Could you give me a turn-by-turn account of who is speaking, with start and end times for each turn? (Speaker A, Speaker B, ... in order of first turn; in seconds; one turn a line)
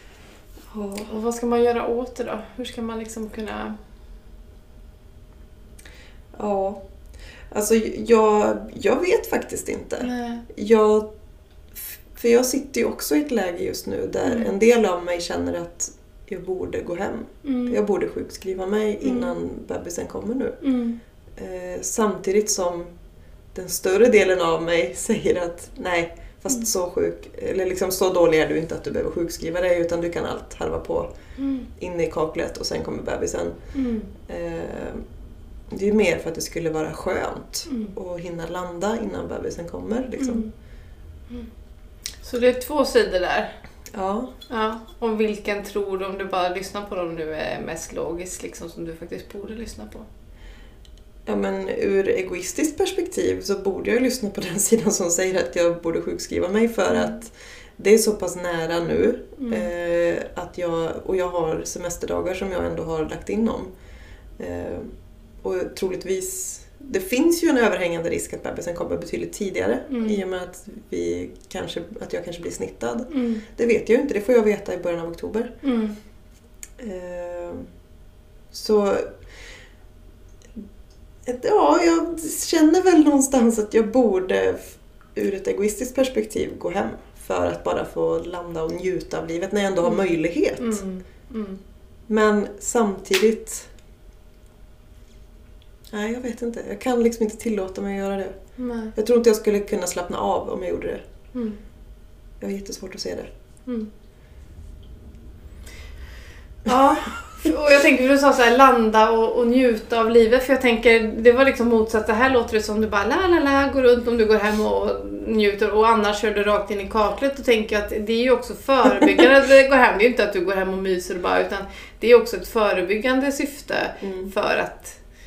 Speaker A: 0.7-1.1
Speaker B: 1.1-3.8
Speaker A: 6.3-6.8
Speaker A: 7.5-11.1
Speaker B: 10.0-10.4
Speaker A: 11.8-20.6
Speaker B: 14.2-14.5
Speaker B: 17.4-17.8
Speaker B: 19.0-19.3
Speaker B: 20.6-21.0
Speaker A: 21.4-22.9
Speaker A: 23.5-31.1
Speaker B: 31.4-31.7
Speaker A: 31.7-33.6
Speaker B: 33.7-34.1
Speaker A: 34.2-35.0
Speaker A: 35.7-40.5
Speaker B: 37.7-37.9
Speaker B: 40.2-40.5
Speaker B: 42.2-43.5
Speaker A: 43.9-44.3
Speaker B: 44.5-50.1
Speaker A: 51.3-63.7
Speaker B: 56.9-57.2
Speaker B: 59.4-59.7
Speaker A: 64.4-75.5
Speaker B: 69.9-70.2
Speaker B: 73.1-73.4
Speaker B: 75.6-76.0
Speaker A: 76.8-77.7
Speaker A: 78.5-79.1
Speaker A: 81.2-90.8
Speaker B: 90.6-91.6
Speaker A: 92.1-93.7
Speaker A: 95.9-98.4
Speaker B: 98.6-98.9
Speaker A: 99.0-101.0
Speaker A: 102.4-103.3
Speaker B: 106.7-125.0
Speaker A: 106.7-107.0
Speaker A: 124.0-124.3